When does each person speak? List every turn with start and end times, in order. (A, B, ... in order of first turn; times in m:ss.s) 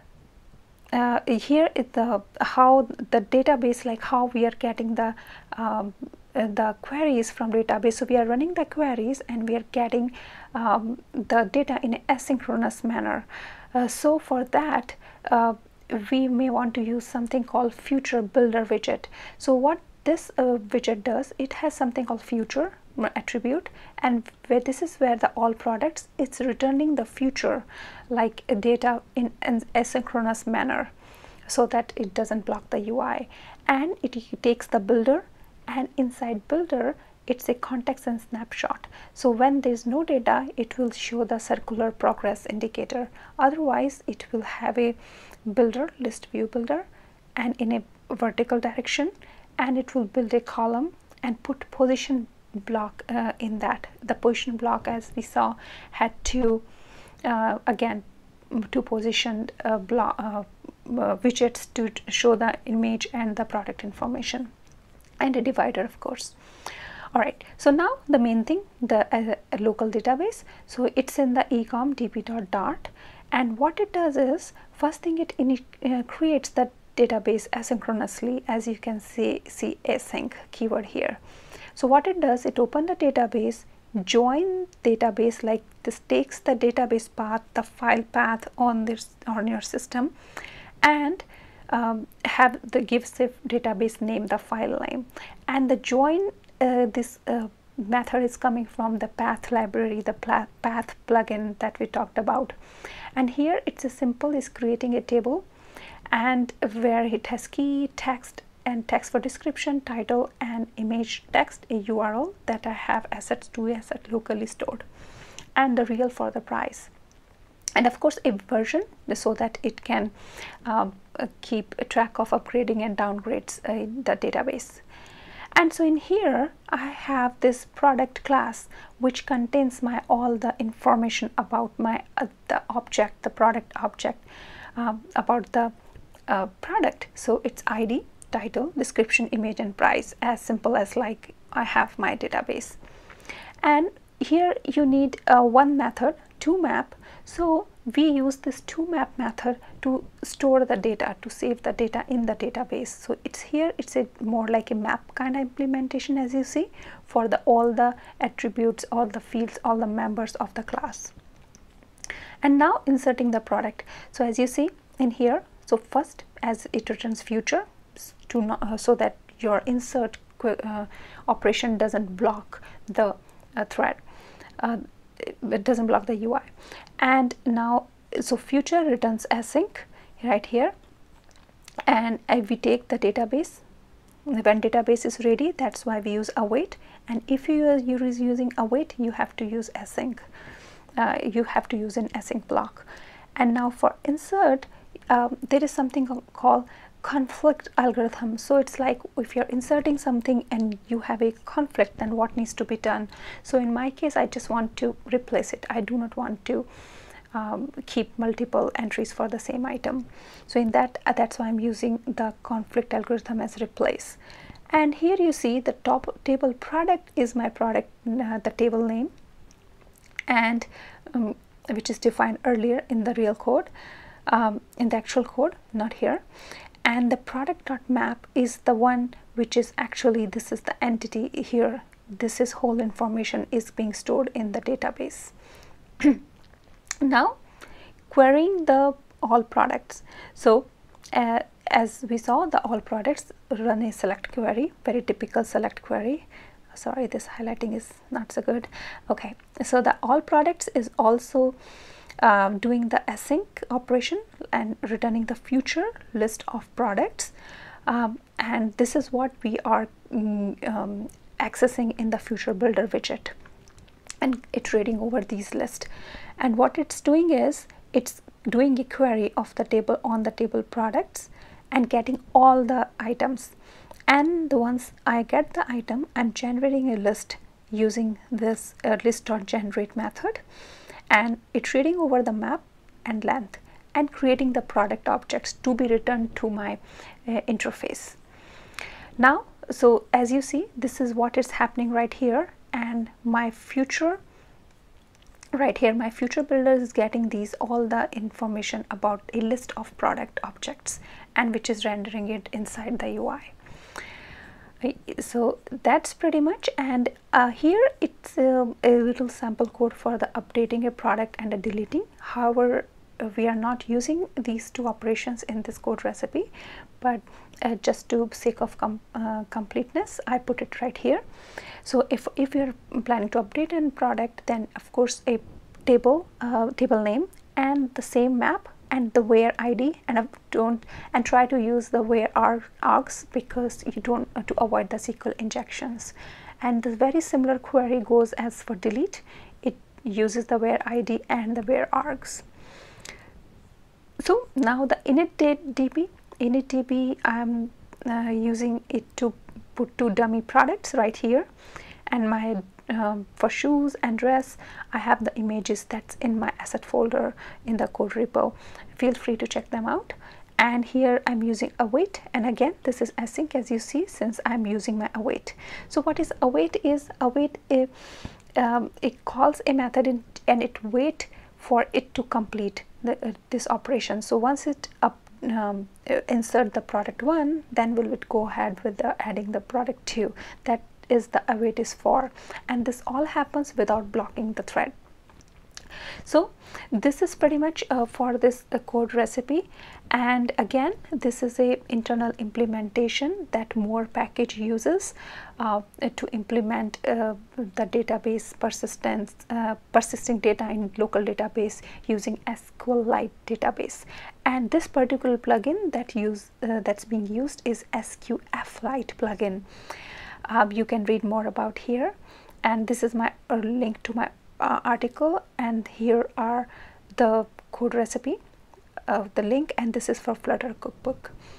0:00.9-0:30.9 A
0:31.5-0:56.6 A
0:57.2-1:04.5 A
1:05.2-1:06.3 A
1:07.1-1:21.2 A
1:21.8-1:30.1 A
1:30.8-1:42.6 A
1:43.2-1:45.4 A
1:46.1-1:54.8 A
1:55.6-1:56.9 A
1:57.8-2:00.1 A
2:00.6-2:04.8 A
2:05.6-2:14.2 A
2:14.8-2:15.7 A
2:16.3-2:22.8 A
2:23.6-2:41.1 A
2:42.4-2:54.0 A
2:54.6-2:56.5 A
2:57.0-3:00.7 A
3:01.9-3:03.6 A
3:04.3-3:10.2 A
3:11.0-3:26.7 A
3:27.3-3:34.2 A
3:34.7-3:39.1 A
3:40.3-3:43.7 A
3:44.3-3:46.2 A
3:46.8-3:55.3 A
3:57.0-3:57.4 A
3:58.1-4:11.6 A
4:12.2-4:17.3 A
4:17.9-4:23.3 A
4:24.2-4:25.9 A
4:26.4-4:33.5 A
4:34.1-4:40.4 A
4:41.1-4:48.2 A
4:49.2-4:54.2 A
4:55.5-5:03.5 A
5:04.8-5:21.2 A
5:21.8-5:42.4 A
5:44.2-5:51.5 A
5:52.1-6:07.9 A
6:08.6-6:24.9 A
6:26.2-6:49.6 A
6:50.4-6:58.4 A
6:59.1-7:01.3 A